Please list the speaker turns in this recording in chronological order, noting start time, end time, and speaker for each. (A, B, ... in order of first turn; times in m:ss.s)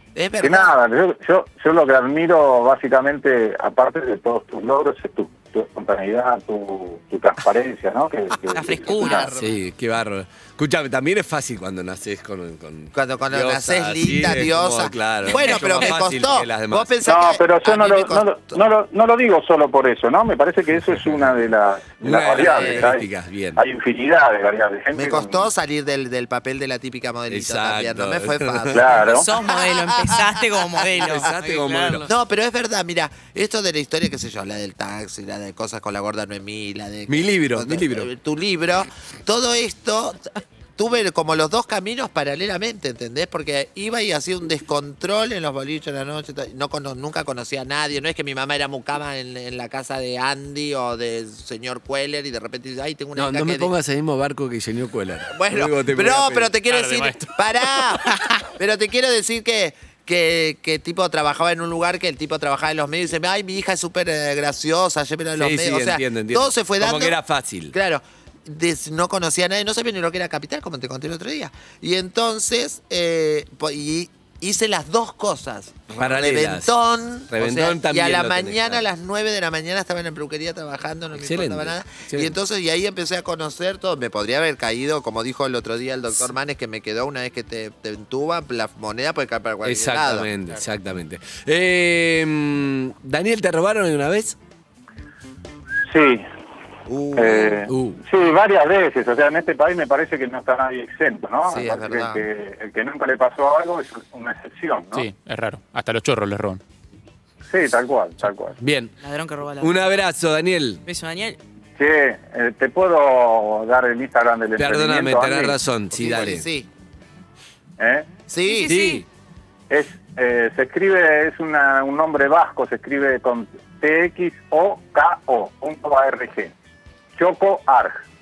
0:00.1-0:00.8 A
0:00.4-0:09.3 B
0:08.5-0:09.6 A
0:08.5-0:09.3 C
0:09.4-0:17.0 D
0:12.9-0:18.6 A
0:15.3-0:15.9 C
0:17.0-0:25.5 B
0:22.0-0:23.6 D
0:22.1-0:22.9 A
0:24.9-0:29.2 A
0:27.3-0:29.0 D
0:28.7-0:29.2 B
0:29.1-0:32.1 C
0:30.9-0:32.1 D
0:32.1-0:53.7 A
0:37.1-0:38.1 D
0:53.1-0:56.5 D
0:55.3-1:07.2 A
0:56.7-0:57.3 E
1:05.4-1:07.8 D
1:07.7-1:30.6 A
1:16.0-1:16.8 D
1:17.3-1:18.8 D
1:21.1-1:22.4 D
1:29.6-1:34.4 D
1:35.9-1:36.2 B
1:36.9-1:37.6 A
1:37.1-1:45.0 B
1:37.7-1:38.0 D
1:41.5-1:42.2 A
1:44.9-1:46.6 E
1:47.5-1:48.6 B
1:48.6-1:48.9 D
1:49.0-1:49.9 C
1:49.6-1:50.8 D
1:50.9-1:51.4 C
1:51.8-1:55.6 B
1:54.6-1:56.4 D
1:55.9-1:56.7 A
1:57.8-1:58.1 B
1:58.3-1:58.7 A
1:58.4-1:59.0 C
1:58.6-1:59.1 D
1:59.7-2:06.5 B
2:07.2-2:08.0 B